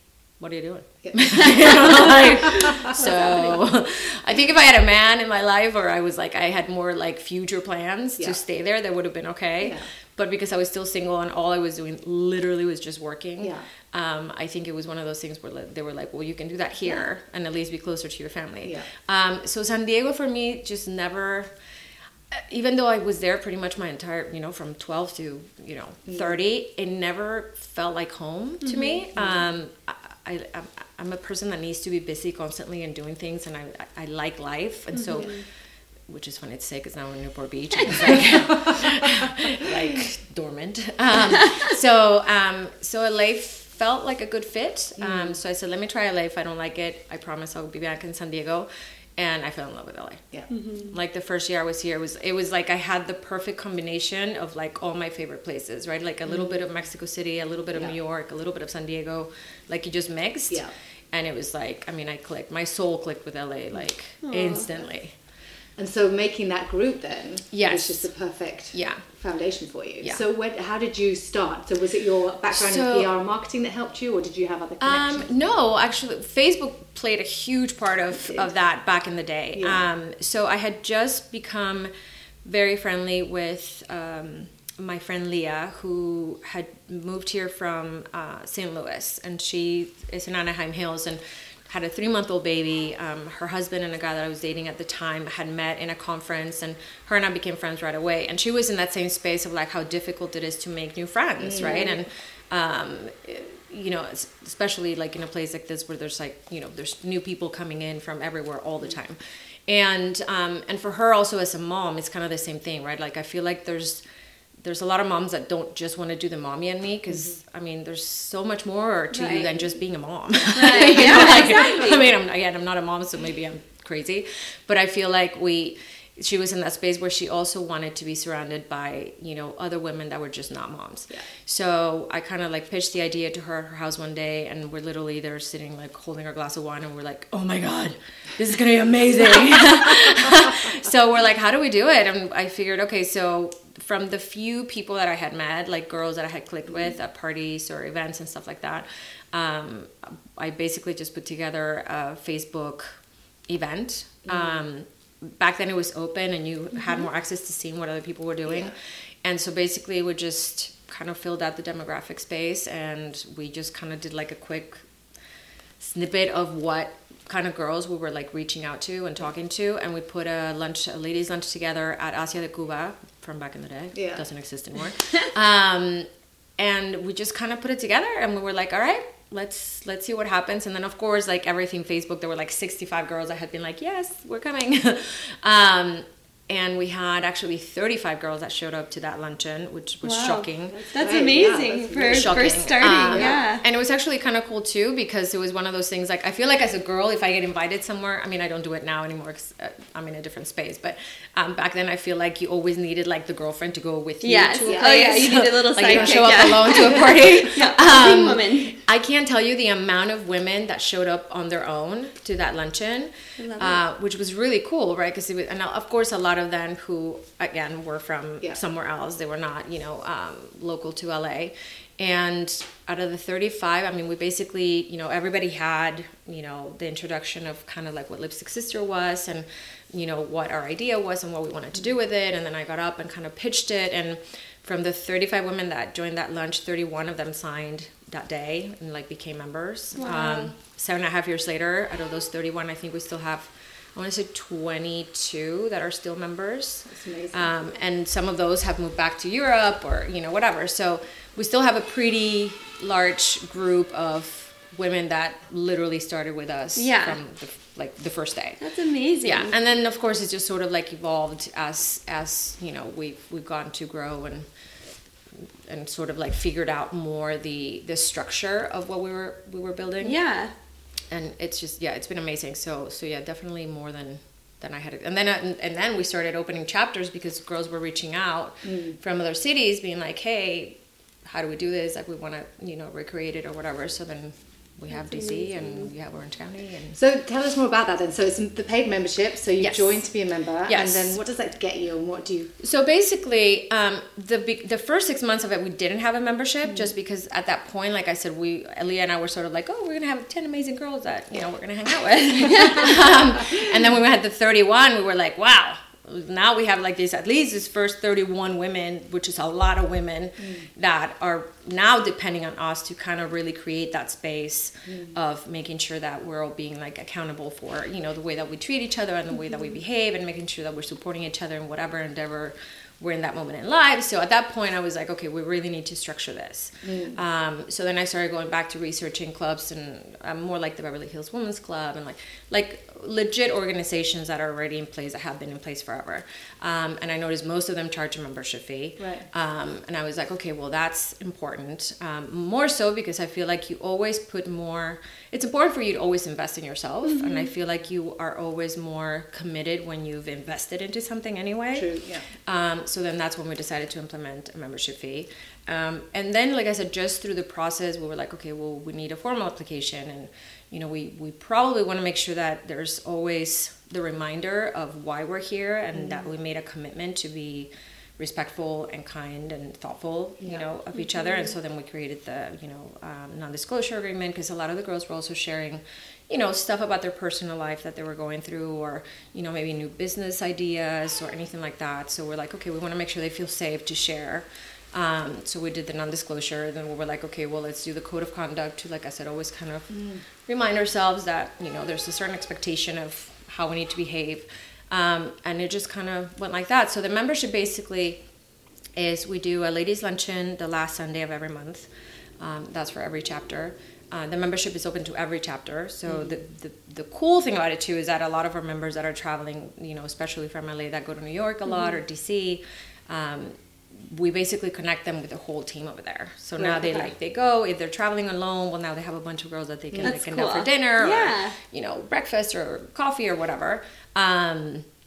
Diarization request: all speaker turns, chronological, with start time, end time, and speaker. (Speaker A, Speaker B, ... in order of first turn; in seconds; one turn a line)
Speaker A: 0.4-21.5
Speaker B: 1.0-2.9
Speaker B: 9.6-9.9
Speaker B: 13.4-13.7
Speaker B: 18.6-18.9
Speaker A: 22.3-35.5
Speaker B: 26.1-26.4
Speaker C: 28.6-29.0
Speaker B: 29.1-29.4
Speaker C: 34.9-35.5
Speaker A: 36.0-50.2
Speaker B: 45.0-45.4
Speaker C: 50.5-50.9
Speaker A: 50.9-65.1
Speaker B: 56.2-56.6
Speaker C: 64.2-64.7
Speaker B: 65.8-75.3
Speaker A: 67.5-68.1
Speaker A: 68.7-69.0
Speaker A: 72.5-73.1
Speaker A: 74.8-81.9
Speaker B: 78.1-78.5
Speaker B: 79.5-79.9
Speaker A: 82.4-114.0
Speaker B: 101.4-101.9
Speaker C: 101.6-101.9
Speaker A: 114.6-164.8
Speaker B: 117.1-117.4
Speaker C: 119.1-119.7
Speaker C: 120.5-122.1
Speaker B: 154.2-154.6
Speaker B: 158.5-158.7
Speaker A: 165.8-190.8
Speaker B: 173.9-174.2
Speaker C: 190.0-193.6
Speaker B: 190.7-193.4
Speaker A: 192.1-258.6
Speaker C: 204.2-208.8
Speaker B: 204.6-207.3
Speaker C: 213.4-213.8
Speaker C: 239.9-240.5
Speaker B: 246.9-247.5
Speaker C: 256.8-257.2
Speaker C: 258.6-259.5
Speaker A: 259.2-264.5
Speaker A: 265.3-270.2
Speaker C: 270.0-270.5
Speaker A: 271.1-287.0
Speaker B: 278.6-279.0
Speaker C: 284.9-285.9
Speaker B: 286.9-292.5
Speaker A: 289.6-290.1
Speaker A: 290.6-291.2
Speaker A: 292.6-398.2
Speaker B: 310.4-310.7
Speaker B: 314.9-315.1
Speaker B: 326.8-327.2
Speaker B: 339.0-339.3
Speaker C: 347.1-347.4
Speaker B: 351.7-352.3
Speaker B: 365.9-366.3
Speaker B: 370.4-370.7
Speaker C: 370.9-371.5
Speaker B: 389.9-390.2
Speaker A: 398.9-424.9
Speaker B: 406.1-406.4
Speaker B: 416.6-417.1
Speaker B: 419.9-420.2
Speaker C: 420.0-421.6